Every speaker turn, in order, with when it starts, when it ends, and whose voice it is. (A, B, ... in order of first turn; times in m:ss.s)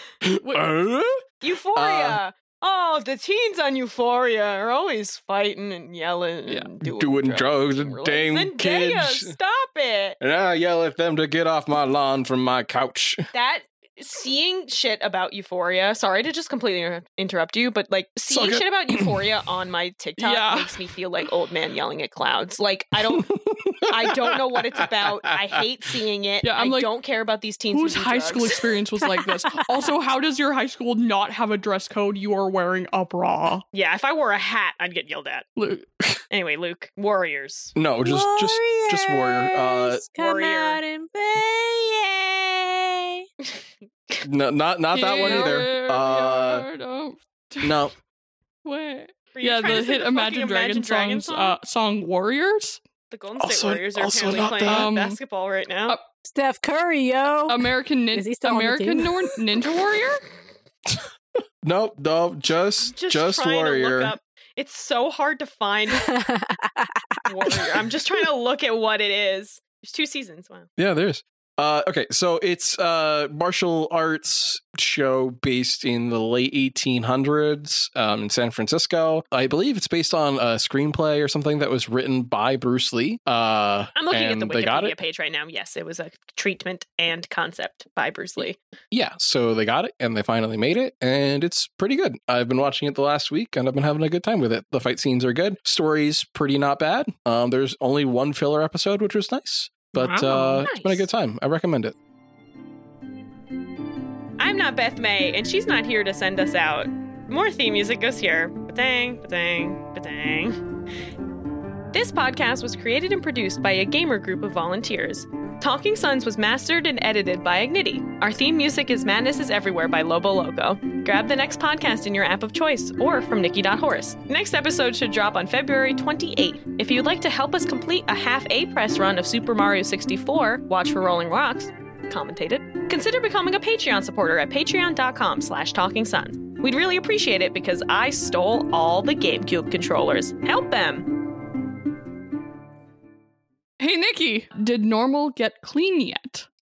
0:00.2-0:02.2 A
0:00.4-0:00.7 B
0:01.4-0:10.2 C
0:06.8-0:09.3 A
0:10.2-0:13.2 A
0:13.3-0:23.3 C
0:18.3-0:19.2 A
0:20.2-0:20.9 B
0:23.0-0:25.5 A
0:23.9-0:28.8 C
0:26.4-0:26.9 B
0:27.7-0:33.6 B
0:33.7-0:35.5 C
0:35.6-0:35.9 B
0:36.3-0:37.7 C
0:37.7-0:40.0 A
0:38.0-0:41.6 D
0:40.2-0:40.8 C
0:41.4-0:42.5 C
0:43.4-0:44.2 C
0:44.2-0:46.6 A
0:44.9-0:47.9 B
0:45.2-0:45.6 C
0:47.6-0:47.9 A
0:48.6-0:52.8 B
0:49.3-0:51.6 C
0:53.1-0:56.0 C
0:53.4-0:54.9 A
0:54.6-0:55.2 B
0:56.2-0:59.3 D
0:57.5-1:00.2 B
1:01.6-1:04.1 A
1:02.8-1:06.1 C
1:05.9-1:07.7 D
1:07.2-1:10.7 C
1:10.8-1:24.9 A
1:23.9-1:28.6 C
1:28.9-1:41.9 A
1:40.0-1:40.6 D
1:40.1-1:41.0 C
1:44.4-1:50.6 C
1:51.9-2:21.1 C
2:23.8-2:26.5 B